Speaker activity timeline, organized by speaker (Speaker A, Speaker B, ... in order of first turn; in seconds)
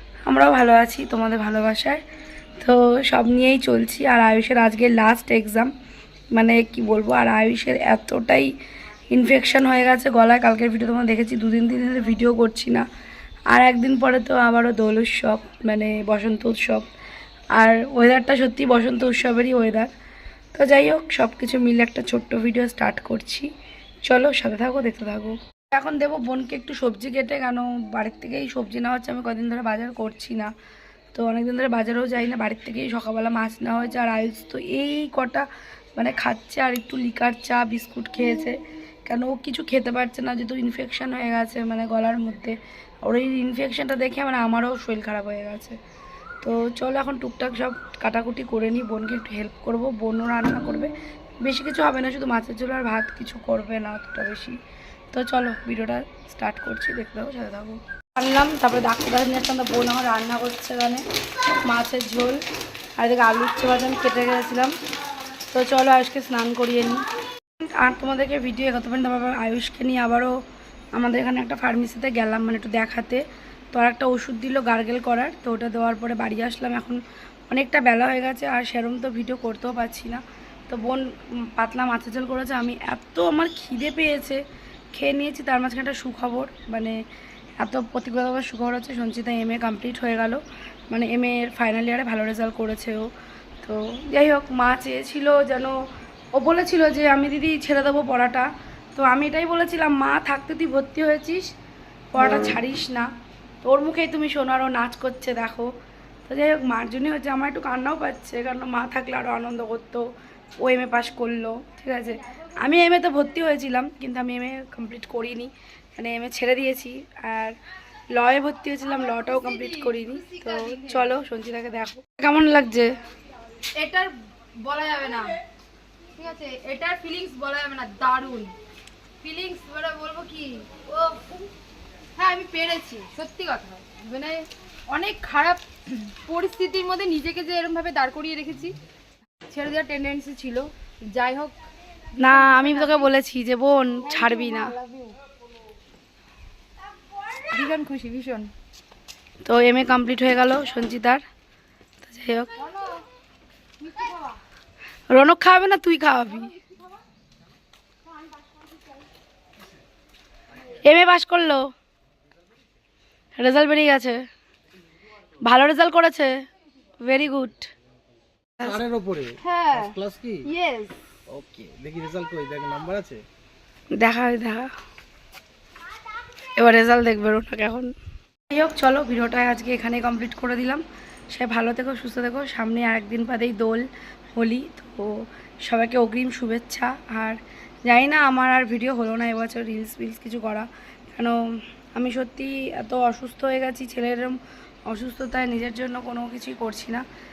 Speaker A: 0.3-2.0, 2.6-5.7, 6.3-8.6, 9.1-12.8, 13.5-16.9, 17.5-19.9, 20.5-23.5, 24.0-30.5, 31.1-45.8, 46.4-54.6, 55.1-61.0, 61.7-62.4, 63.0-64.7, 65.5-67.0, 67.6-70.4, 70.9-84.4, 84.9-87.0, 87.6-93.1, 93.6-95.8, 96.3-101.5, 102.1-103.1, 103.6-105.7, 106.3-110.1, 110.6-117.6, 118.1-123.0, 142.2-144.8, 149.4-151.2, 152.0-152.5, 155.1-156.5, 160.8-161.7, 163.4-164.2, 165.4-166.3, 167.1-167.7, 173.9-174.7, 176.6-177.9, 178.5-197.0
Speaker B: 119.0-121.1, 123.8-125.4, 126.2-128.6, 129.2-131.4, 132.2-138.8, 139.4-141.6, 142.2-143.1, 144.0-145.2, 147.3-148.5, 152.6-153.1, 153.8-154.4, 169.4-171.0
Speaker C: 168.6-170.5, 171.3-173.2